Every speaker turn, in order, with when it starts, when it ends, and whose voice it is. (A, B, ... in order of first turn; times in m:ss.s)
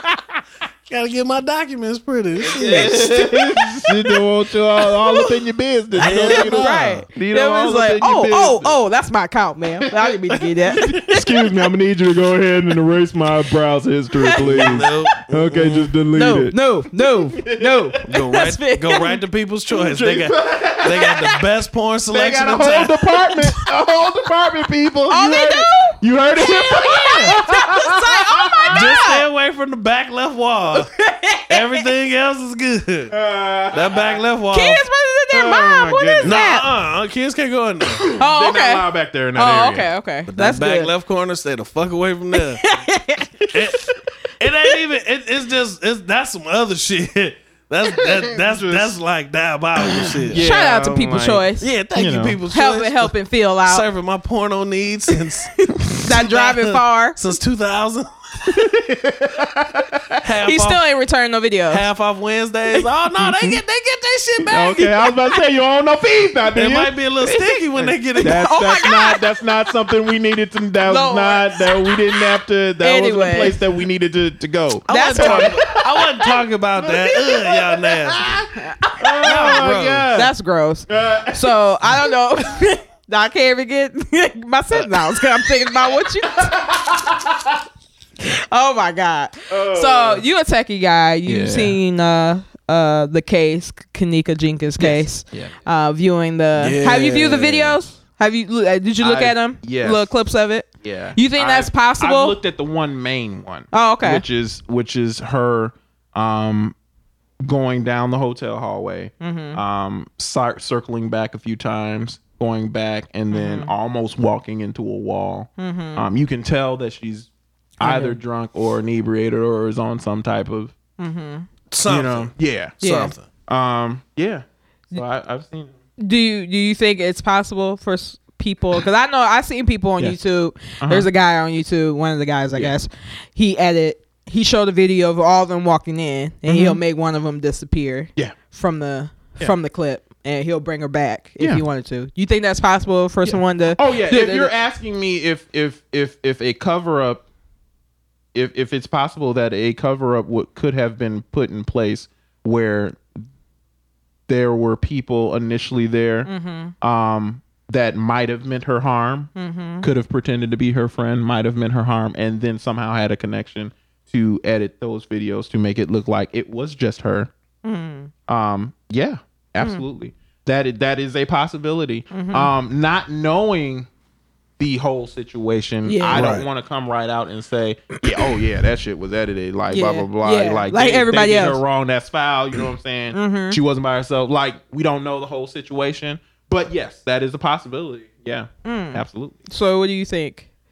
0:00.9-0:03.5 A
0:02.4-0:08.7 B
0:04.9-0:05.3 C
0:06.0-0:07.0 A
0:06.0-0:11.2 C
0:10.3-0:10.9 A
0:10.7-0:16.6 B
0:14.2-0:14.9 C
0:14.4-0:15.9 A
0:16.1-0:19.2 C
0:17.3-0:18.0 B
0:18.1-0:22.9 A
0:19.7-0:21.1 B
0:22.1-0:28.8 B
0:25.1-0:29.2 C
0:27.0-0:27.3 A
0:28.7-0:30.9 A
0:30.8-0:31.8 C
0:31.5-0:33.1 A
0:33.1-0:34.2 B
0:33.7-0:34.8 A
0:34.5-0:36.7 C
0:35.3-0:36.4 B
0:36.2-0:38.0 A
0:38.0-0:39.9 B
0:38.2-0:40.9 C
0:40.3-0:42.6 A
0:42.4-0:43.6 C
0:43.5-0:50.5 A
0:48.3-0:49.0 B
0:50.3-0:52.4 B
0:50.3-0:51.7 C
0:51.6-0:53.1 A
0:52.5-0:53.8 C
0:53.6-0:58.6 A
0:55.6-0:57.2 C
0:58.5-1:00.2 B
1:00.2-1:00.8 A
1:00.4-1:01.8 C
1:01.7-1:05.0 A
1:03.2-1:03.5 B
1:04.5-1:15.9 B
1:06.5-1:08.6 A
1:08.2-1:09.3 C
1:10.8-1:12.2 C
1:12.8-1:13.6 C
1:14.9-1:15.8 C
1:14.9-1:18.5 A
1:18.5-1:19.6 C
1:19.0-1:20.3 B
1:19.2-1:20.1 A
1:20.1-1:26.6 C
1:20.9-1:22.0 B
1:26.4-1:27.5 B
1:28.2-1:42.4 C
1:29.5-1:30.2 B
1:31.2-1:31.8 B
1:34.8-1:35.5 B
1:36.6-1:37.8 A
1:39.0-1:40.1 B
1:40.8-1:46.8 B
1:43.7-1:44.2 C
1:47.4-2:00.7 B
1:49.2-1:49.6 C
1:53.3-1:53.7 C
1:55.6-1:56.0 C
1:57.8-1:58.2 C
2:01.0-2:01.5 C
2:01.7-2:03.2 A
2:01.9-2:02.8 B
2:02.8-2:03.1 C
2:03.5-2:05.7 B
2:06.0-2:24.5 C
2:10.8-2:11.1 B
2:16.5-2:16.8 B
2:23.2-2:27.2 B
2:28.3-2:33.1 B
2:34.3-2:39.3 B
2:36.2-2:36.7 C
2:39.4-2:39.9 C
2:39.8-2:47.3 B
2:47.6-2:48.1 C
2:48.3-2:53.9 B
2:52.1-2:52.5 C
2:54.6-3:09.3 B
2:55.8-2:56.3 C
2:56.1-2:56.4 A
2:59.7-3:01.6 C
3:03.1-3:03.6 C
3:08.6-3:10.5 C